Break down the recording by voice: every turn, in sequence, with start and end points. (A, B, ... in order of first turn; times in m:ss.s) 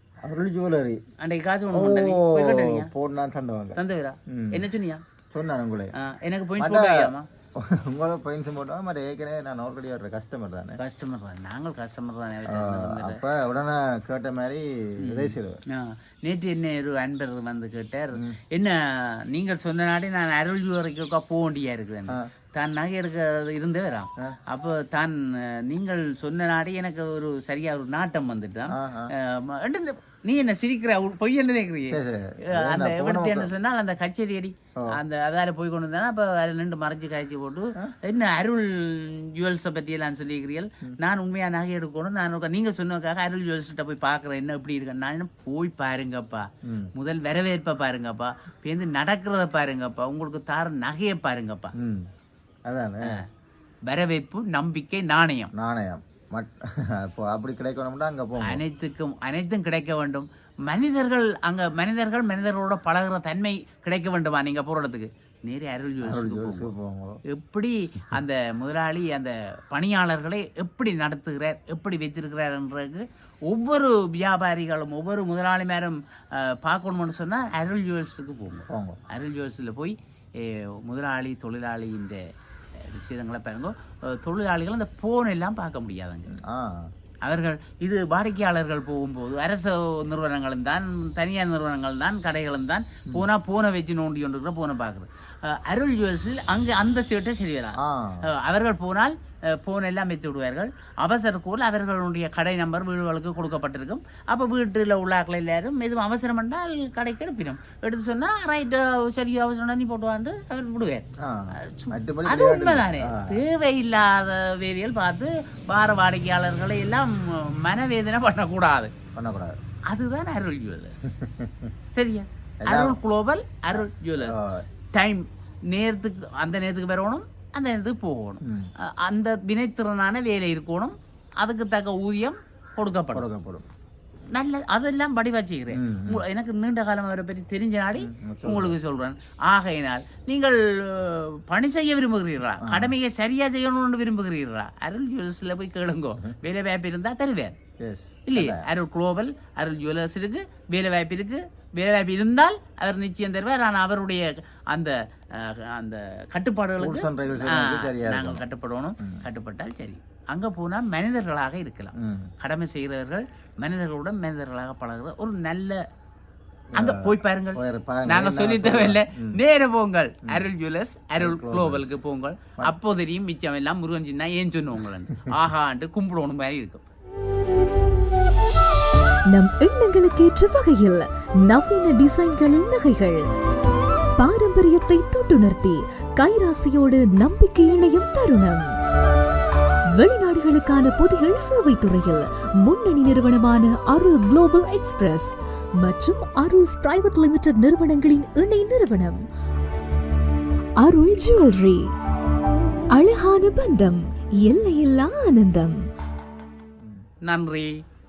0:00.2-0:01.0 A
0:01.2-0:02.9 B
0:01.7-0:03.8 A
0:03.8-0:05.0 B
0:04.3-0:04.7 A
0:05.3-0:05.9 A
0:05.9-0:07.3 B
0:06.6-0:10.8 A
0:10.8-0:13.2 B
0:12.4-0:15.6 A
0:15.0-0:51.7 B
0:18.1-0:18.4 A
0:28.7-0:29.1 A
0:31.9-0:33.5 A
0:46.6-0:46.9 A
0:51.8-0:52.1 A
0:52.7-0:53.2 A
0:53.9-0:55.5 B
0:55.6-0:58.6 A
0:58.4-1:06.7 B
1:06.0-1:07.2 A
1:07.3-1:22.2 B
1:18.7-1:19.0 A
1:22.8-1:26.3 B
1:26.3-1:26.9 A
1:27.2-1:58.9 B
1:37.8-1:38.3 A
1:51.2-1:53.4 A
1:59.2-1:59.6 A
1:59.9-2:01.0 B
2:01.0-2:01.7 A
2:01.9-2:04.4 B
2:02.6-2:03.0 A
2:03.7-2:04.6 A
2:04.9-2:13.3 B
2:08.4-2:08.7 A
2:13.1-2:13.7 A
2:14.3-2:27.6 B
2:15.7-2:16.3 A
2:18.0-2:18.8 A
2:22.6-2:23.0 A
2:27.8-2:28.7 A
2:28.3-2:45.8 B
2:36.8-2:38.4 A
2:42.0-2:42.3 A
2:46.7-2:49.4 A
2:46.8-2:56.8 B
2:51.2-2:52.0 A
2:59.3-3:03.2 C
3:04.2-3:08.7 C
3:10.0-3:19.2 C
3:20.8-3:21.9 C
3:23.0-3:25.8 C
3:27.2-3:27.7 B